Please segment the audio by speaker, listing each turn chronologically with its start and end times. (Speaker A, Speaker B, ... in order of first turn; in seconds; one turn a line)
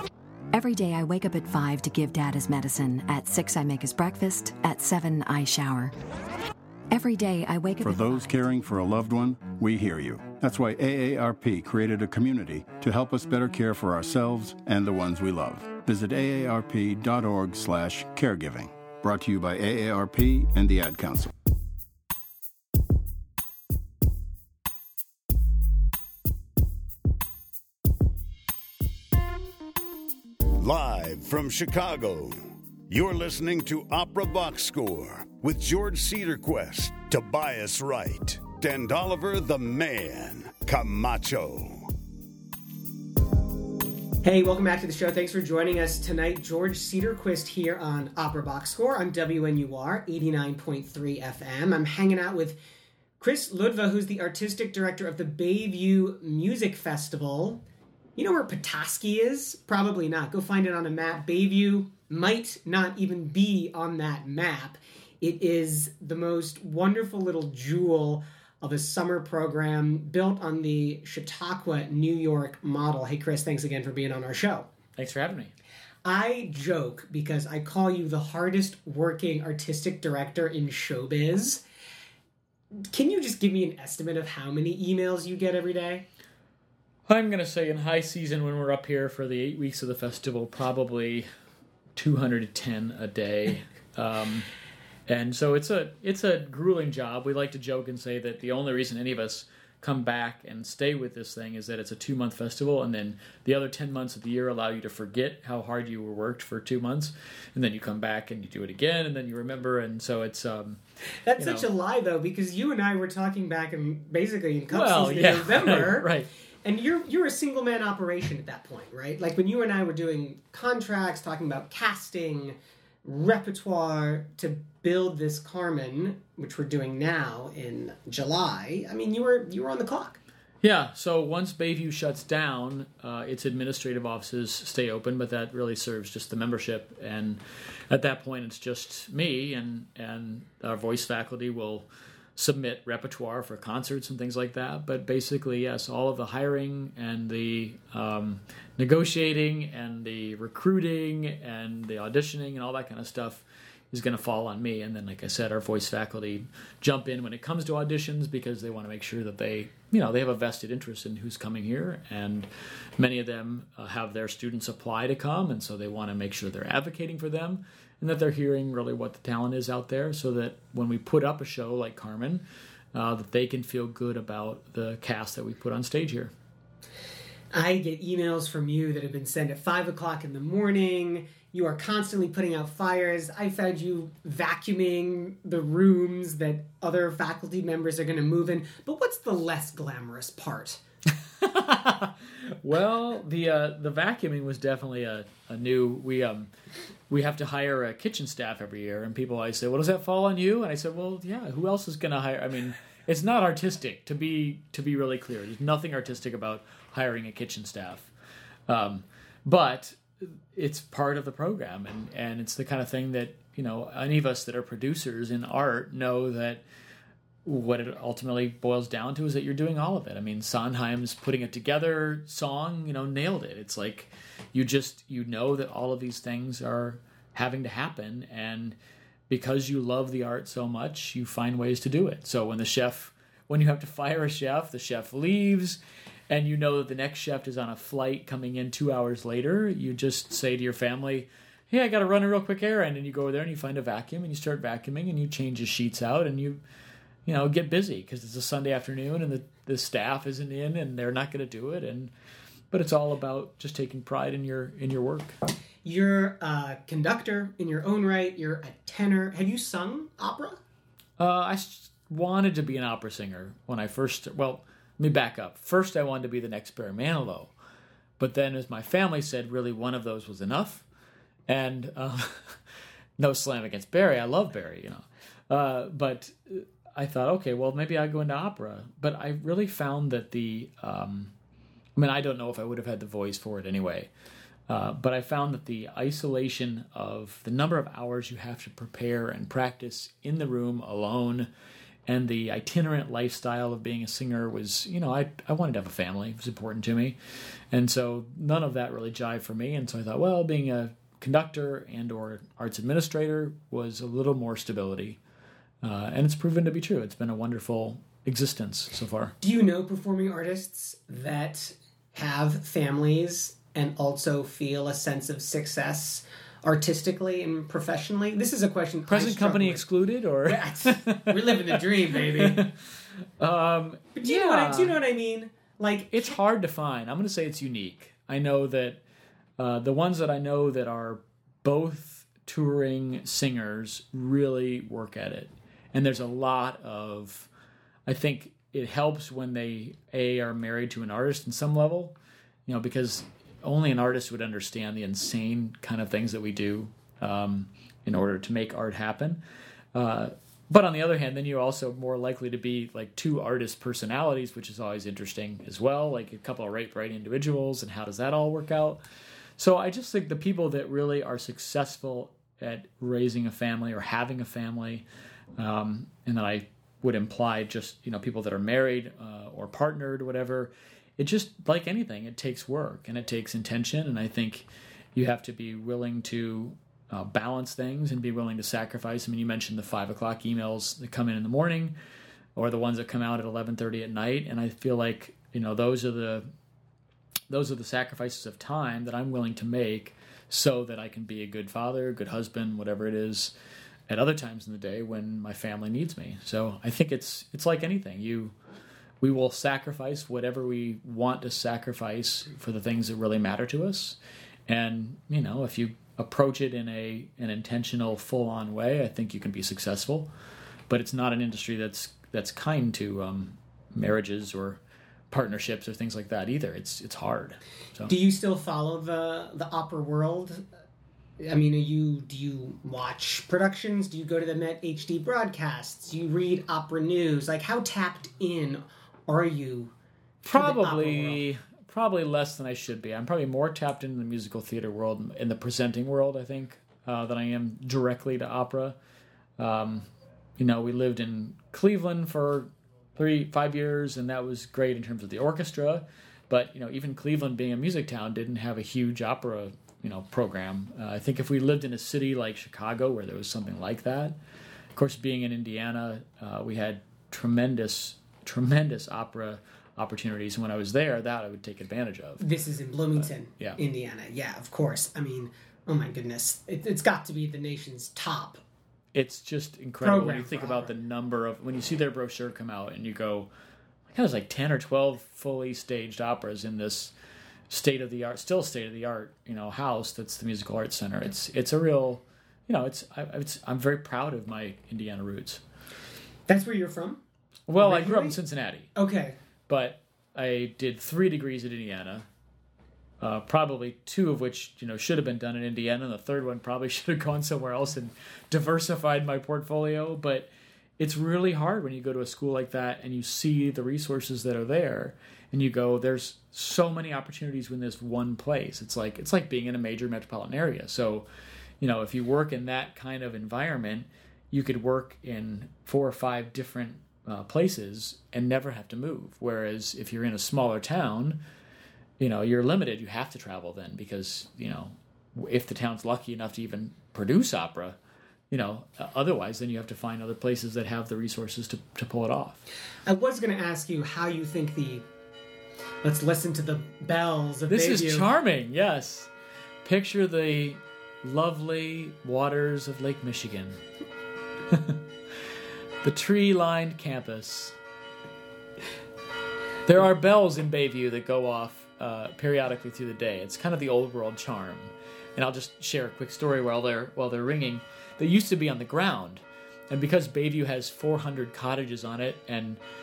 Speaker A: 0.5-6.0
Speaker A: 6.9-8.4
Speaker B: 7.8-21.3
Speaker C: 30.6-41.9
Speaker D: 44.2-52.6
Speaker D: 53.2-57.6
Speaker D: 58.1-74.7
Speaker E: 75.0-75.5
Speaker D: 76.0-81.6
Speaker D: 82.9-86.1
Speaker E: 87.1-91.3
Speaker E: 92.0-94.5
Speaker E: 95.1-110.8
Speaker D: 111.2-116.1
Speaker E: 111.4-111.7
Speaker E: 114.7-116.3
Speaker D: 116.6-130.2
Speaker E: 130.6-176.3
Speaker D: 177.5-190.8
Speaker E: 191.4-196.5
Speaker E: 197.1-208.1
Speaker E: 208.7-216.6
Speaker E: 217.4-228.8
Speaker E: 229.3-246.6
Speaker E: 247.3-252.1
Speaker E: 252.7-255.3
Speaker D: 255.8-260.6
Speaker E: 261.2-267.5
Speaker E: 268.2-270.9
Speaker E: 271.5-272.6
Speaker E: 273.2-281.3
Speaker E: 282.0-284.1
Speaker E: 284.7-291.5
Speaker E: 292.1-297.1
Speaker E: 297.7-305.2
Speaker E: 305.8-309.4
Speaker D: 309.4-319.8
Speaker E: 319.1-322.7
Speaker D: 320.4-322.7
Speaker E: 323.4-325.0
Speaker D: 324.1-326.4
Speaker E: 326.1-329.0
Speaker E: 329.6-337.5
Speaker E: 338.1-349.4
Speaker E: 349.9-359.0
Speaker E: 359.6-365.1
Speaker E: 365.6-382.0
Speaker E: 382.6-386.5
Speaker E: 387.5-393.5
Speaker E: 394.1-398.6
Speaker E: 399.2-410.3
Speaker E: 410.9-418.1
Speaker D: 418.1-420.6
Speaker D: 421.4-429.9
Speaker E: 430.4-439.0
Speaker D: 430.5-431.4
Speaker E: 439.6-454.4
Speaker E: 454.9-462.4
Speaker D: 462.4-468.6
Speaker E: 469.1-473.5
Speaker D: 470.0-470.9
Speaker E: 474.1-477.1
Speaker E: 477.7-485.6
Speaker D: 486.5-487.2
Speaker E: 487.7-488.9
Speaker D: 487.8-488.4
Speaker D: 489.0-489.4
Speaker E: 489.7-492.3
Speaker E: 493.2-511.3
Speaker E: 511.8-521.4
Speaker E: 522.2-528.0
Speaker E: 528.5-532.6
Speaker D: 533.1-535.1
Speaker D: 536.0-538.3
Speaker E: 537.7-539.3
Speaker E: 539.8-543.8
Speaker E: 544.7-545.0
Speaker E: 546.0-547.8
Speaker E: 549.9-562.8